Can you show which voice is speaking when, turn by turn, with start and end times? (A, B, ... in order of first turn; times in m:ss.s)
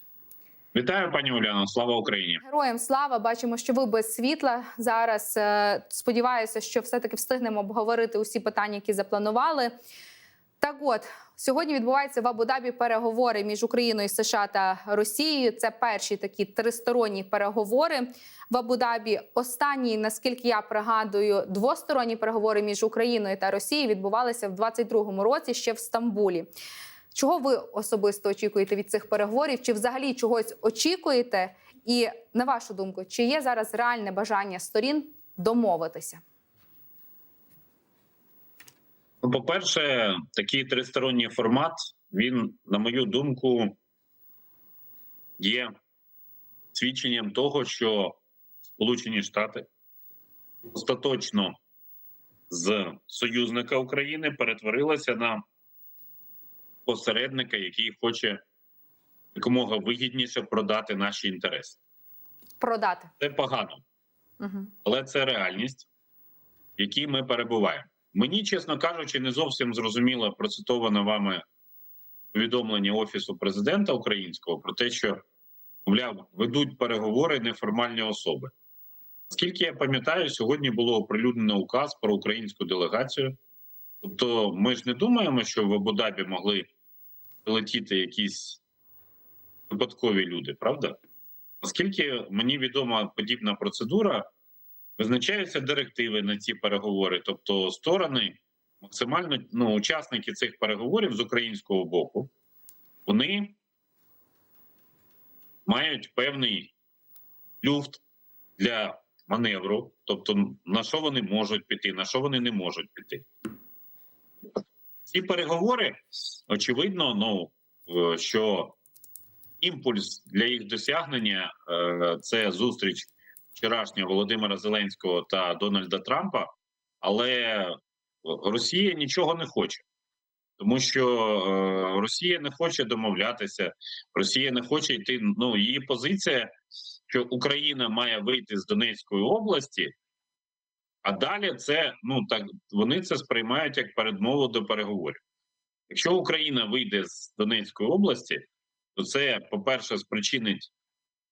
0:00.7-0:02.4 A
0:02.4-0:09.7 B
0:10.6-0:26.5 B
0:27.1-0:36.2 B
0:39.2-0:43.8 A
0:45.4-0:45.7 A
0:46.7-0:48.2 A
0:48.8-0:49.7 A
0:50.7-0:51.6 A
0:52.5-0:55.4 A
0:56.9-0:58.4 A
0:59.4-1:01.8 A
1:02.6-1:03.1 B
1:03.2-1:03.8 A
1:04.4-1:04.7 B
1:04.8-1:05.9 A
1:06.8-1:11.4 A
1:12.3-1:15.2 A
1:15.9-1:18.5 A
1:19.3-1:23.4 A
1:24.0-1:26.7 A
1:27.4-1:28.6 A
1:29.7-1:31.0 A
1:31.6-1:34.3 A
1:35.0-1:42.3 A
1:43.1-1:43.6 A
1:45.7-1:46.7 A
1:47.6-1:48.0 A
1:48.6-1:53.2 A
1:55.1-1:58.8 A
1:59.6-2:06.5 A
2:07.0-2:09.8 A
2:10.6-2:16.5 A
2:17.1-2:19.9 A
2:21.0-2:25.2 A
2:25.9-2:28.4 A
2:29.0-2:30.7 A